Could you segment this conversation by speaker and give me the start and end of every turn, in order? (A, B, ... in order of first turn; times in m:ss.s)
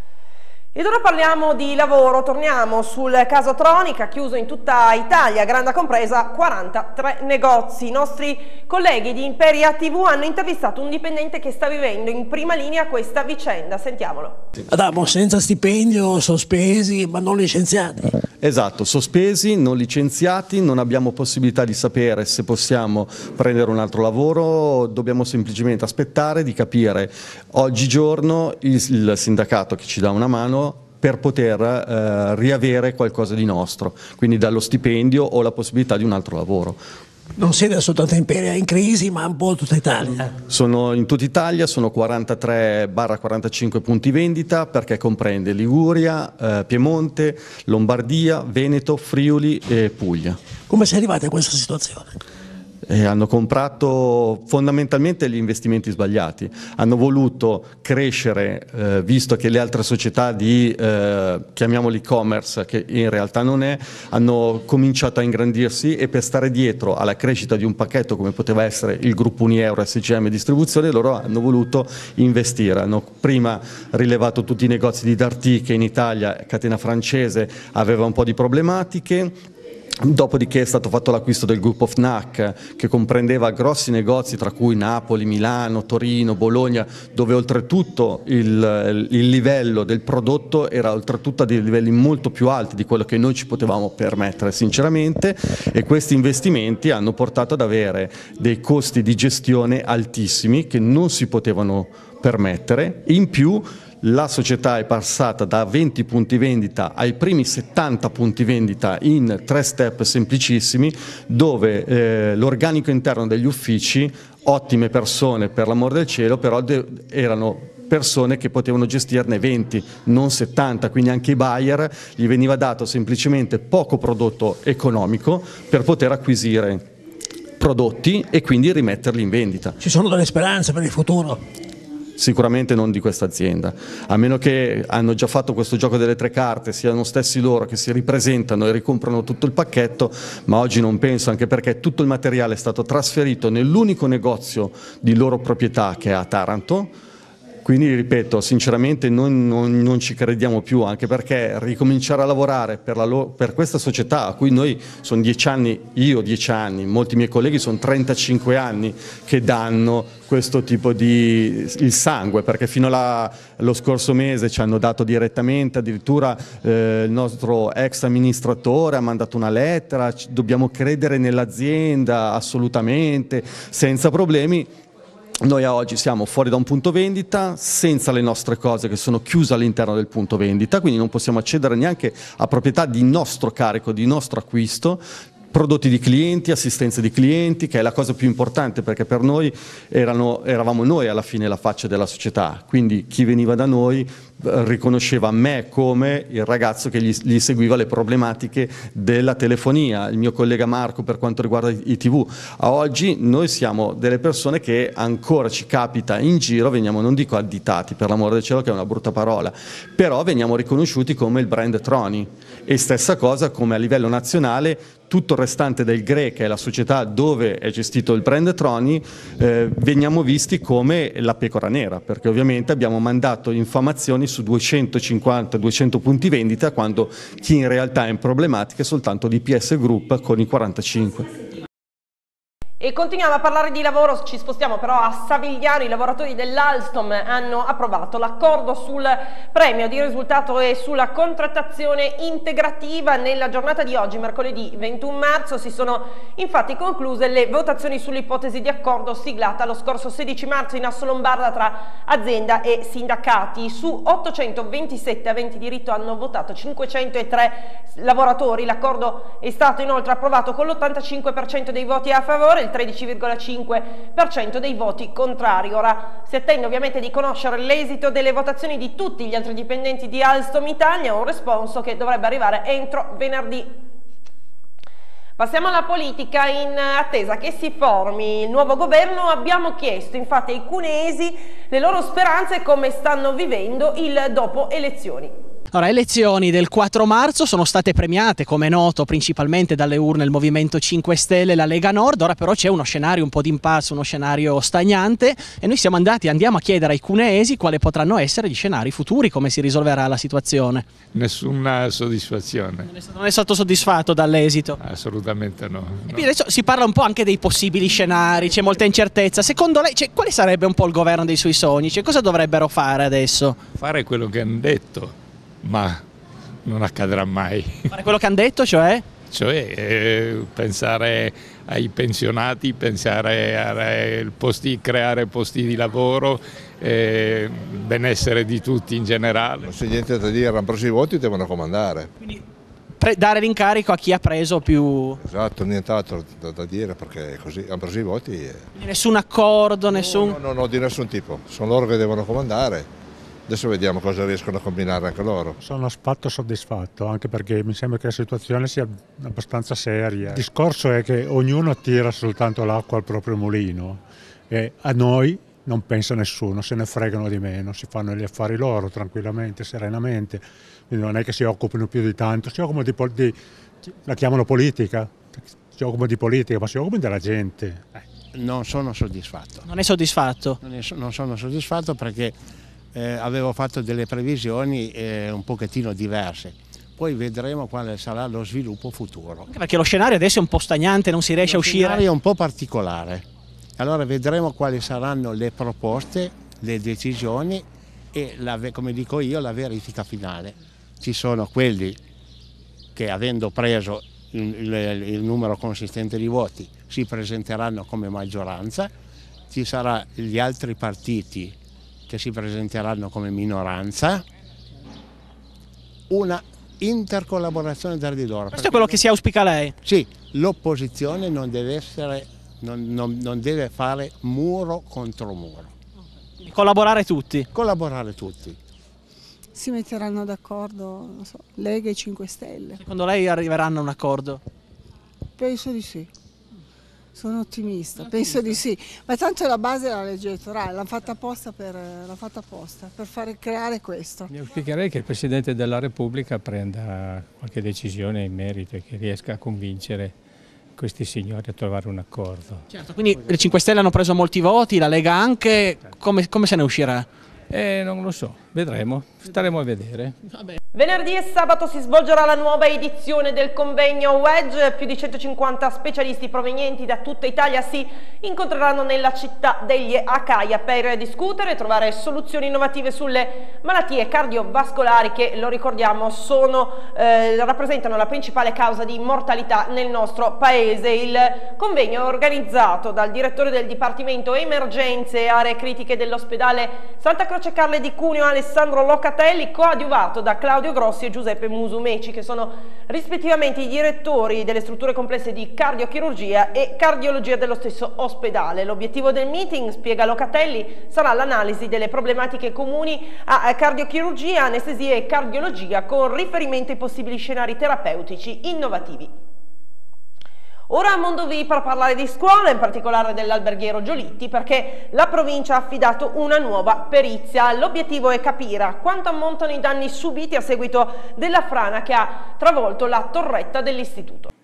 0:00.7-0:14.4 A
0:14.7-0:18.1 B
0:18.4-0:36.8 C
0:37.4-0:40.3 B
0:40.5-0:50.4 C
0:50.7-0:52.2 B
0:52.9-1:19.4 C
1:20.0-2:06.9 C
2:07.6-2:09.8 C
2:09.8-2:11.4 B
2:12.2-2:26.9 C
2:27.6-2:54.7 C
2:55.4-3:51.3 C
3:52.8-4:33.8 A
4:35.4-4:45.3 A
4:45.7-5:00.8 D
5:01.1-5:02.9 E
5:02.8-5:04.8 D
5:04.8-5:06.3 E
5:06.1-5:13.6 D
5:13.8-5:16.0 E
5:16.6-5:17.8 E
5:17.9-5:19.0 D
5:19.3-5:29.7 E
5:29.6-5:32.1 F
5:33.0-5:35.2 D
5:35.2-5:38.6 F
5:38.8-5:40.4 D
5:40.1-5:42.9 F
5:43.5-5:45.6 F
5:45.6-5:54.0 G
5:54.5-5:58.1 G
6:08.3-6:09.7 H
6:09.6-6:10.6 D
6:10.6-6:12.4 H
6:12.9-6:19.5 H
6:19.5-6:22.0 D
6:21.4-6:23.2 H
6:23.8-6:32.0 H
6:32.9-6:38.9 H
6:39.5-6:41.6 H
6:42.1-6:44.2 H
6:46.1-6:49.0 H
6:48.5-6:49.8 D
6:49.8-6:55.7 H
6:56.4-6:57.5 D
6:57.5-6:58.6 H
6:59.5-7:02.8 I
7:02.8-7:04.4 D
7:05.4-7:06.1 I
7:07.1-7:14.3 I
7:14.3-7:20.1 J
7:20.8-7:22.6 J
7:22.8-7:27.1 D
7:27.5-7:30.2 J
7:30.7-8:19.1 A
8:20.7-8:34.3 A